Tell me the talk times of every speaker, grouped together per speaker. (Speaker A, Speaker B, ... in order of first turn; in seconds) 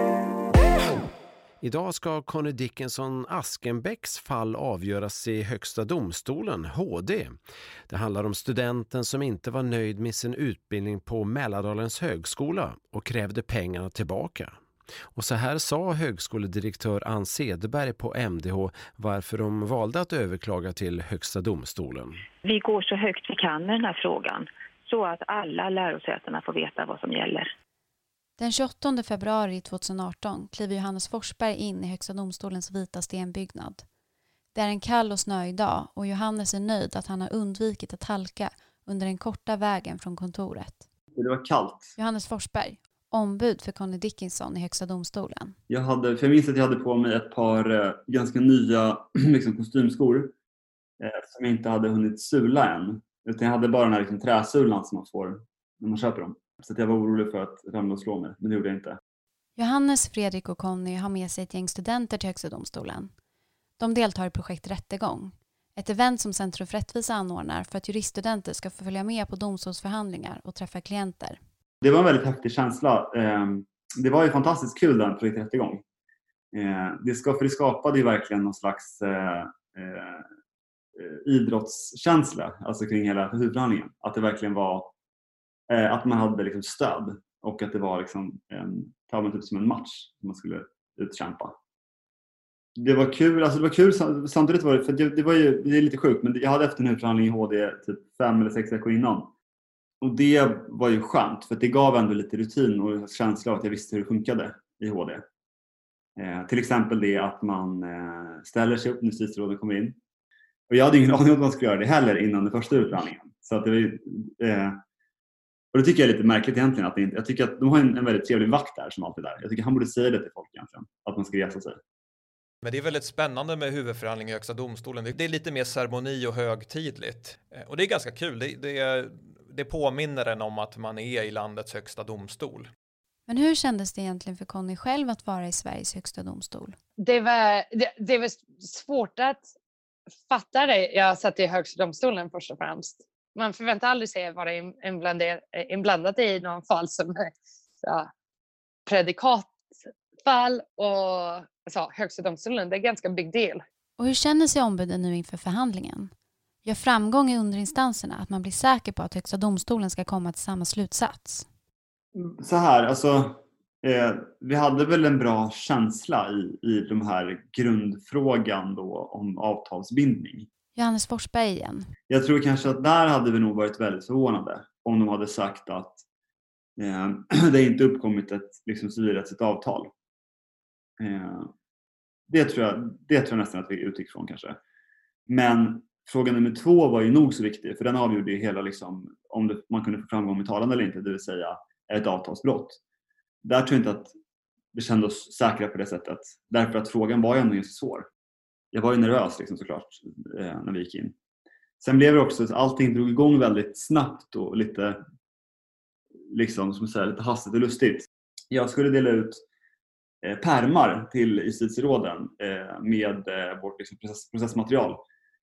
Speaker A: 1.6-14.6, 15.1-22.2
Speaker B: 22.4-27.5
Speaker C: 28.4-33.8, 34.5-40.8, 42.0-45.5, 59.6-63.1, 63.8-71.4, 133.3-136.8, 154.0-156.1, 156.6-161.4, 170.7-171.9
Speaker D: 41.1-41.9, 45.7-50.3, 51.0-59.0, 71.8-75.8, 76.5-80.2, 81.0-84.9, 85.7-91.5, 92.8-99.3, 100.0-105.2, 106.2-110.0, 110.7-114.8, 115.7-121.8, 162.2-170.5, 172.1-176.0, 176.8-179.9, 181.0-181.5, 182.3-184.6, 185.3-192.8, 193.4-194.1, 194.7-198.1, 198.7-201.1, 201.8-205.0, 206.3-209.4, 210.2-215.0
Speaker E: 122.6-132.7
Speaker F: 137.0-139.4, 140.3-147.3, 147.8-148.1, 148.8-149.5, 150.2-153.6